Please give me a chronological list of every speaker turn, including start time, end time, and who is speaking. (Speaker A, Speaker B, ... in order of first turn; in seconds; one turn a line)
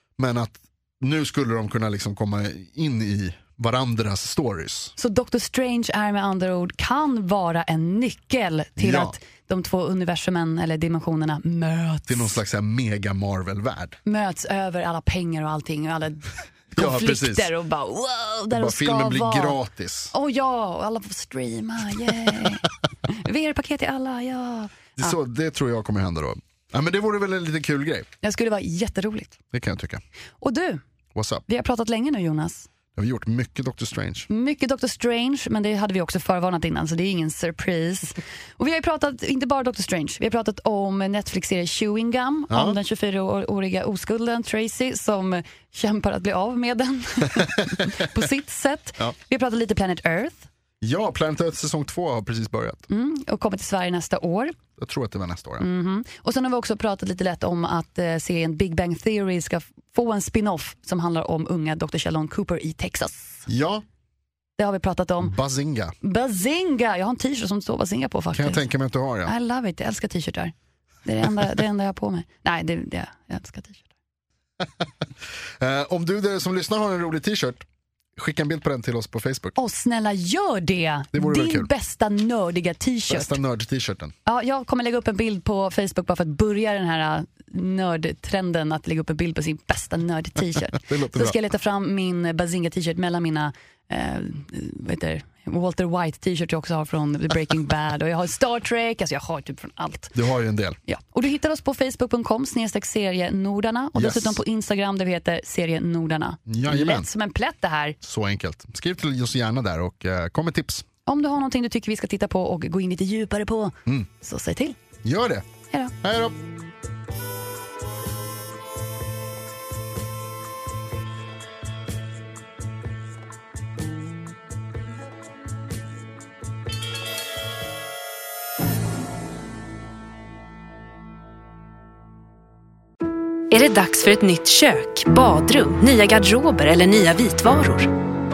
Speaker A: 0.2-4.9
Speaker B: 5.0-12.4
Speaker A: 8.8-9.2
Speaker A: 12.1-14.0
Speaker B: 14.1-19.6
Speaker A: 16.7-17.5
Speaker A: 18.6-20.1
Speaker B: 20.1-25.1
Speaker A: 25.0-28.1
Speaker B: 28.2-29.4
Speaker A: 29.5-30.0
Speaker B: 30.4-30.8
Speaker A: 31.1-31.4
Speaker B: 31.5-32.7
Speaker A: 32.9-34.3
Speaker B: 34.3-50.5
Speaker A: 42.5-42.8
Speaker A: 47.4-48.1
Speaker A: 50.8-52.9
Speaker B: 52.9-54.6
Speaker A: 54.8-55.6
Speaker B: 55.6-63.5
Speaker A: 63.5-63.8
Speaker B: 64.6-65.4
Speaker A: 65.2-65.9
Speaker B: 66.0-68.6
Speaker A: 68.3-69.3
Speaker B: 69.2-70.5
Speaker B: 71.0-73.9
Speaker A: 75.6-77.6
Speaker A: 78.2-79.6
Speaker B: 79.6-83.4
Speaker A: 81.1-81.7
Speaker A: 83.1-84.1
Speaker B: 84.2-100.1
Speaker A: 90.8-91.4
Speaker A: 100.1-100.8
Speaker B: 100.9-108.0
Speaker A: 103.9-104.4
Speaker A: 106.5-107.1
Speaker A: 108.0-110.9
Speaker B: 111.1-114.8
Speaker A: 115.0-115.5
Speaker A: 116.0-116.4
Speaker C: 133.5-137.9